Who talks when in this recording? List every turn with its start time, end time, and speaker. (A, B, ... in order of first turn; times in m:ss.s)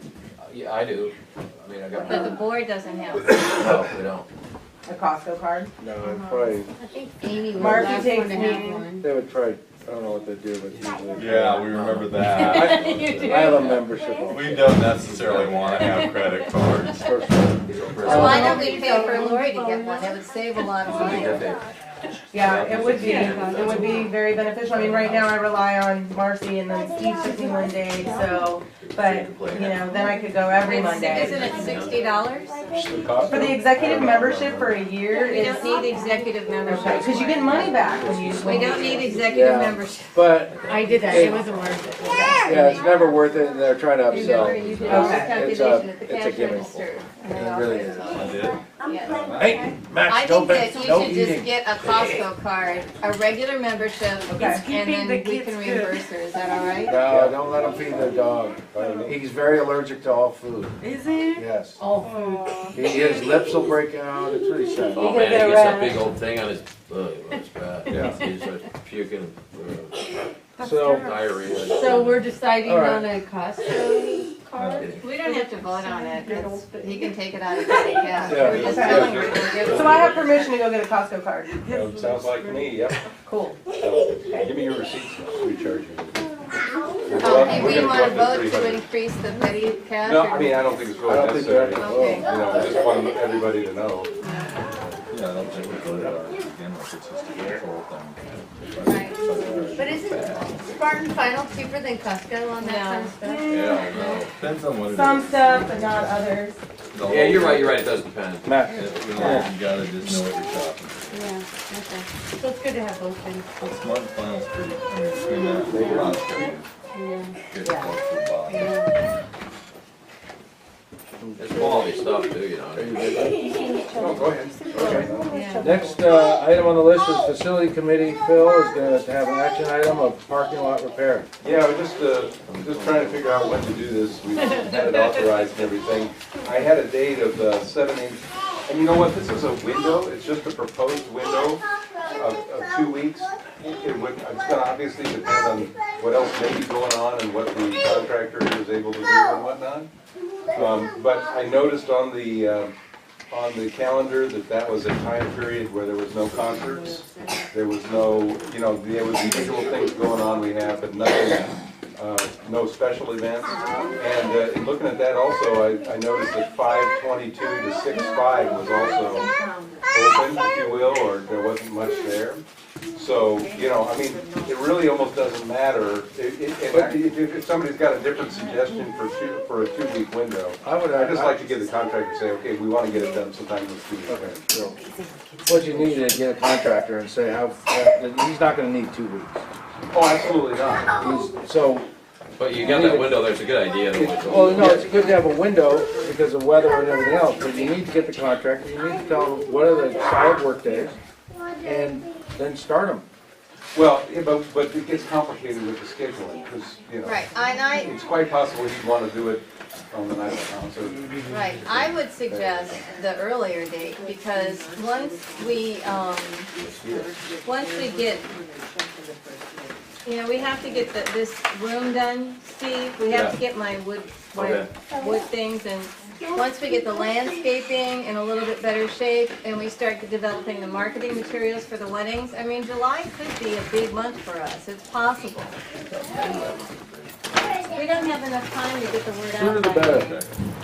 0:00.4-0:02.5 A
0:02.0-0:03.4 B
0:03.2-0:04.3 A
0:04.8-0:05.7 C
0:05.8-0:06.7 D
0:06.1-0:06.4 E
0:06.9-0:08.2 B
0:07.2-0:09.0 E
0:07.5-0:07.9 D
0:07.5-0:08.9 C
0:09.0-0:11.7 D
0:11.1-0:13.5 F
0:11.6-0:13.9 A
0:12.6-0:13.0 B
0:13.2-0:14.7 D
0:14.2-0:17.2 F
0:15.0-0:16.0 A
0:17.0-0:17.4 D
0:17.7-0:18.7 A
0:18.0-0:18.6 D
0:18.0-0:21.4 B
0:18.1-0:20.1 E
0:20.8-0:21.7 A
0:22.3-0:31.8 C
0:22.4-0:25.5 A
0:23.0-0:24.1 E
0:28.8-0:29.9 A
0:30.6-0:32.7 B
0:31.2-0:32.0 A
0:32.7-0:34.8 G
0:33.3-0:36.1 C
0:35.1-0:37.9 B
0:36.6-0:39.2 C
0:36.8-0:39.4 A
0:38.4-0:40.1 B
0:39.3-0:41.5 D
0:40.3-0:42.8 A
0:40.6-0:43.0 E
0:42.1-0:42.5 C
0:42.4-0:46.8 D
0:44.1-0:49.3 B
0:44.3-0:45.0 A
0:44.5-0:45.2 F
0:44.9-0:45.4 C
0:47.3-0:48.2 D
0:48.1-0:49.6 F
0:49.4-0:51.5 D
0:50.0-0:57.0 B
0:54.3-0:54.7 C
0:54.4-0:55.9 E
0:56.8-1:00.8 D
0:56.9-0:59.2 G
1:00.9-1:01.2 E
1:01.3-1:01.8 D
1:01.8-1:03.4 E
1:02.7-1:05.2 D
1:04.9-1:10.1 A
1:04.9-1:06.0 E
1:07.9-1:08.2 G
1:07.9-1:08.2 D
1:10.6-1:18.5 E
1:10.6-1:11.1 D
1:11.0-1:12.3 A
1:12.6-1:13.1 D
1:14.5-1:15.0 F
1:14.8-1:15.0 A
1:15.0-1:20.6 B
1:18.3-1:18.9 D
1:18.3-1:20.5 G
1:18.6-1:21.6 C
1:21.6-1:23.0 G
1:21.7-1:22.7 E
1:23.2-1:23.6 C
1:23.8-1:26.2 G
1:27.0-1:28.8 G
1:27.2-1:30.8 B
1:30.0-1:34.1 G
1:31.1-1:32.7 D
1:31.8-1:32.5 B
1:34.2-1:34.6 B
1:35.1-1:41.0 F
1:35.8-1:36.2 G
1:38.8-1:39.2 B
1:39.4-1:39.7 D
1:39.7-1:44.2 E
1:42.6-1:43.2 B
1:43.2-1:43.9 C
1:43.4-1:44.3 A
1:44.3-1:46.3 F
1:44.8-1:46.6 C
1:46.9-1:47.9 F
1:47.0-1:48.6 A
1:48.4-1:49.5 D
1:48.7-1:51.4 F
1:49.2-1:50.2 E
1:51.1-1:53.5 E
1:53.6-1:56.7 F
1:55.7-1:56.2 D
1:55.7-1:57.4 E
1:57.4-1:58.8 F
1:57.6-1:57.9 C
1:58.5-1:58.8 E
2:01.2-2:01.9 D
2:01.4-2:03.2 A
2:02.7-2:03.4 D
2:03.3-2:06.2 E
2:03.9-2:05.3 G
2:04.7-2:11.3 D
2:05.3-2:05.8 B
2:11.4-2:29.9 G
2:12.5-2:13.3 A
2:14.6-2:15.0 B
2:30.5-2:32.7 G
2:33.3-2:49.3 G
2:36.9-2:37.3 E
2:48.5-2:49.9 E
2:49.9-2:52.4 G
2:52.9-3:04.4 G
2:53.4-2:54.4 E
2:56.7-2:57.0 D
3:00.6-3:01.4 D
3:04.1-3:04.8 D
3:05.4-3:09.4 D
3:09.9-3:10.9 G
3:11.0-3:11.9 D
3:12.4-3:15.1 A
3:12.6-3:13.2 D
3:13.9-3:21.0 D
3:14.9-3:15.7 E
3:21.6-3:23.0 D
3:23.7-3:31.0 G
3:27.0-3:28.0 B
3:31.0-3:31.4 D
3:31.3-3:36.5 B
3:32.3-3:32.7 G
3:33.9-3:35.9 E
3:36.5-3:39.7 E
3:37.4-3:38.3 B
3:40.0-3:55.6 B
3:40.5-3:40.8 E
3:43.1-3:43.4 A
3:44.3-3:44.7 A
3:55.8-3:57.8 A
3:57.7-4:00.2 B
3:59.3-4:00.2 D
3:59.9-4:00.3 F